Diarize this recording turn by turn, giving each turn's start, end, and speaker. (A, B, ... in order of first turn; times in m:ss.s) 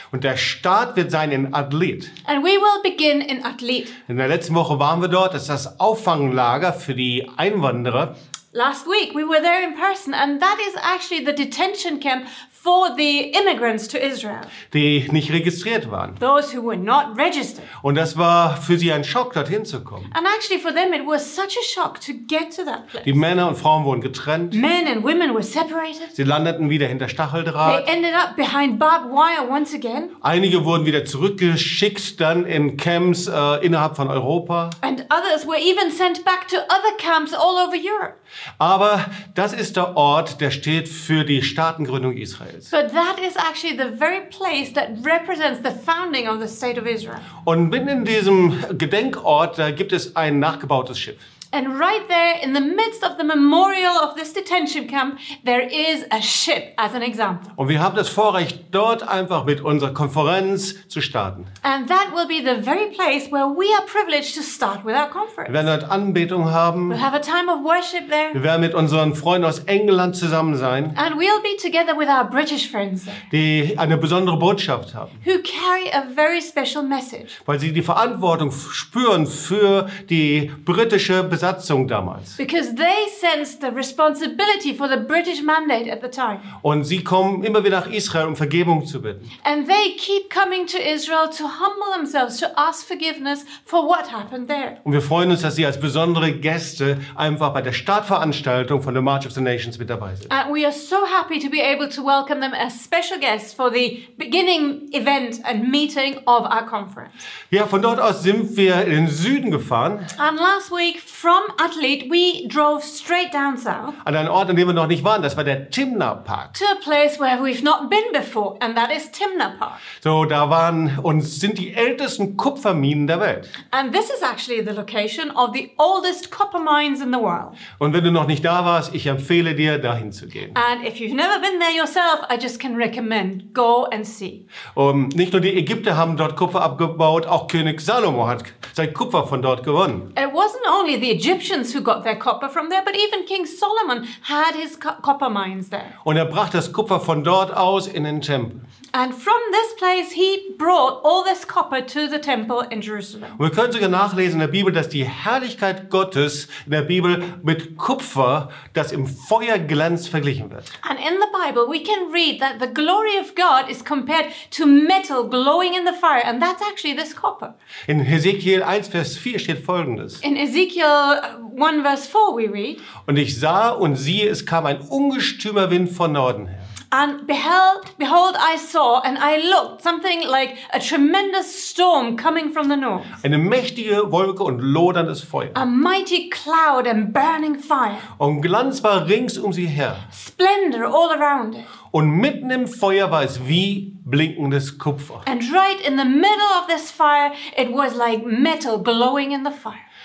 0:00.1-0:02.1 A
0:02.2-0:03.9 B
0:04.1-0:08.1 A
0:08.5-0:14.5 B
0:14.7-0:16.2 A
0:16.2-0:17.7 B
0:17.8-0:20.1 A
0:20.1-0:23.2 B
0:23.0-0:24.6 A
0:24.5-0:26.1 B
0:26.2-0:27.9 A
0:27.6-0:30.1 B
0:30.2-0:34.8 A
0:34.8-0:38.2 B
0:38.6-0:42.7 A
0:42.7-0:47.3 B
0:47.4-0:51.2 A
0:51.5-0:57.5 B
0:57.6-1:01.5 A
1:01.6-1:05.7 B
1:05.5-1:07.0 A
1:06.9-1:08.4 B
1:08.3-1:11.0 A
1:11.0-1:13.2 B
1:13.3-1:15.2 A
1:15.2-1:17.4 B
1:17.5-1:22.4 A
1:22.4-1:26.5 B
1:26.6-1:29.3 A
1:29.4-1:34.8 B
1:34.8-1:40.3 A
1:40.3-1:47.2 B
1:47.5-1:50.1 A
1:50.2-1:54.0 B
1:54.0-1:56.6 A
1:56.5-1:59.8 B
2:00.0-2:03.5 A
2:03.7-2:07.6 B
2:07.8-2:10.6 A
2:10.5-2:14.4 B
2:14.7-2:20.1 A
2:20.2-2:26.0 B
2:26.0-2:28.6 A
2:28.9-2:33.4 B
2:33.4-2:40.7 A
2:40.8-2:47.5 B
2:47.9-2:50.2 A
2:50.2-2:52.8 B
2:53.0-2:56.7 A
2:56.9-3:03.1 B
3:03.2-3:05.6 A
3:05.6-3:08.1 B
3:08.2-3:10.1 A
3:10.1-3:11.7 B
3:11.9-3:15.2 A
3:15.2-3:19.8 B